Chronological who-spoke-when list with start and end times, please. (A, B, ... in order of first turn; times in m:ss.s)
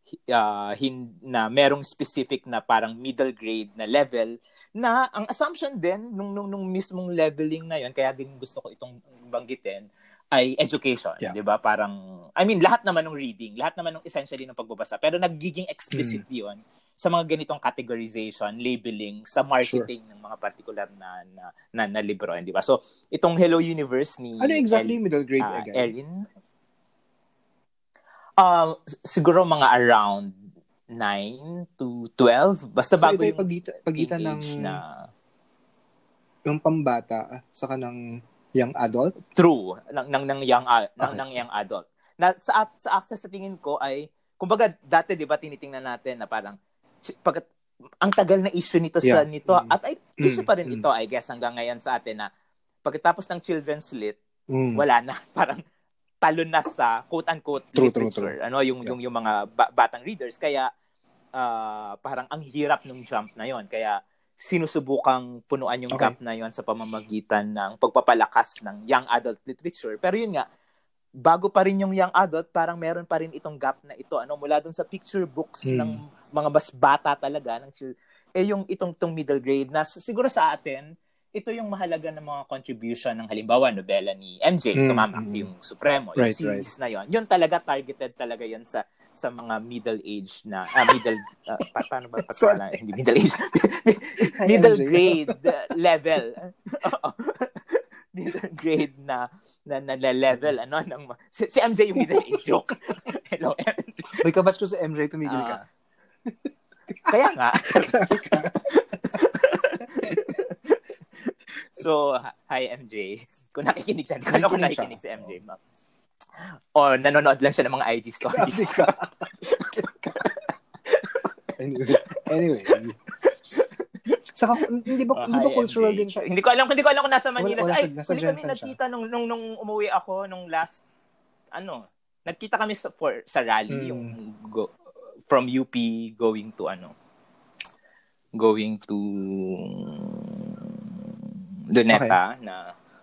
0:00.3-0:26.2 A
0:15.9-0:16.2 B
0:24.4-0:25.9 B
0:28.4-0:30.3 A
0:30.9-0:35.0 A
0:33.0-0:34.8 B
0:36.5-0:38.0 B
0:38.6-0:39.1 B
0:39.4-0:47.4 A
0:41.0-0:41.4 B
0:48.0-0:52.3 A
0:49.0-0:50.8 B
0:52.9-0:54.2 A
0:54.5-0:54.8 B
0:54.8-0:55.6 A
0:56.2-1:00.7 A
0:57.7-0:58.3 B
1:01.4-1:10.4 A
1:11.2-1:44.2 A
1:15.6-1:16.0 B
1:24.8-1:25.5 B
1:26.2-1:26.6 B
1:34.4-1:35.5 B
1:42.0-1:42.4 B
1:44.2-1:45.6 B
1:45.2-1:45.6 A
1:46.2-1:47.1 B
1:47.1-1:55.6 A
1:47.9-1:48.6 B
1:50.0-1:50.3 B
1:54.3-1:55.3 B
1:56.8-1:58.9 A
1:58.3-2:00.3 B
1:59.4-2:01.3 A
2:01.6-2:03.0 B
2:02.7-2:03.7 A
2:04.3-2:06.2 B
2:05.1-2:10.8 A
2:07.4-2:08.7 B
2:11.6-2:14.7 A
2:13.7-2:14.2 B
2:15.3-2:16.9 A
2:18.4-2:20.7 A
2:21.7-2:22.7 A
2:21.9-2:22.2 B